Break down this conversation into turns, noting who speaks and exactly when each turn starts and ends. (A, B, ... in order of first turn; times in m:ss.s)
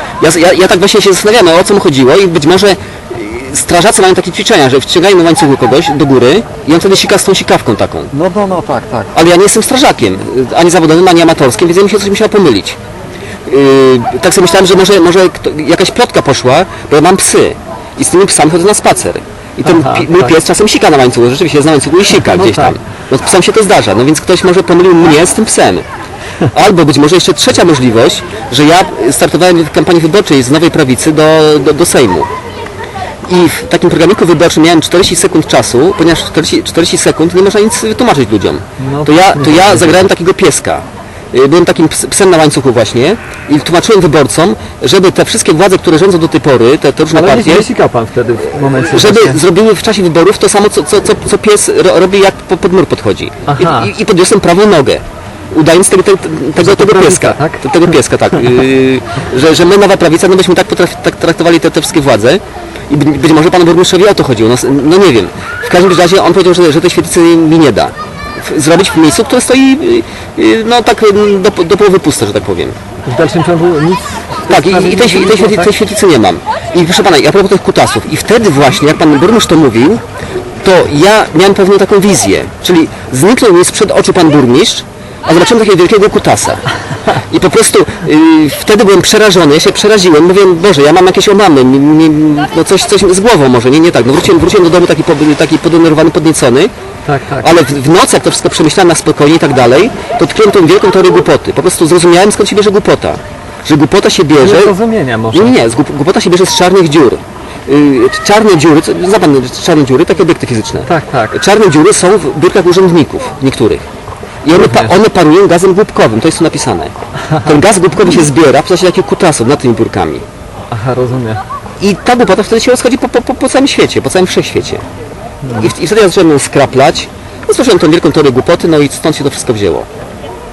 0:00.2-0:08.1 A
0:08.1-0:09.1 B
0:09.1-0:12.8 A
0:13.4-0:25.8 A
0:19.7-0:20.3 B
0:22.4-0:22.7 B
0:26.4-0:32.3 A
0:33.3-0:47.7 A
0:38.8-0:39.9 B
0:47.1-0:49.4 B
0:48.7-1:12.8 A
0:53.5-0:53.9 B
0:56.6-0:57.7 B
1:13.1-1:15.7 B
1:14.5-1:20.0 A
1:20.6-1:36.7 A
1:37.1-1:37.6 B
1:37.4-1:44.7 A
1:44.4-1:45.6 B
1:45.3-1:53.8 A
1:50.8-1:51.4 B
1:54.4-2:00.2 A
1:54.5-1:55.0 B
1:57.3-1:57.6 B
2:00.7-2:01.4 B
2:01.8-2:04.8 A
2:05.4-2:05.7 B
2:05.5-2:09.9 A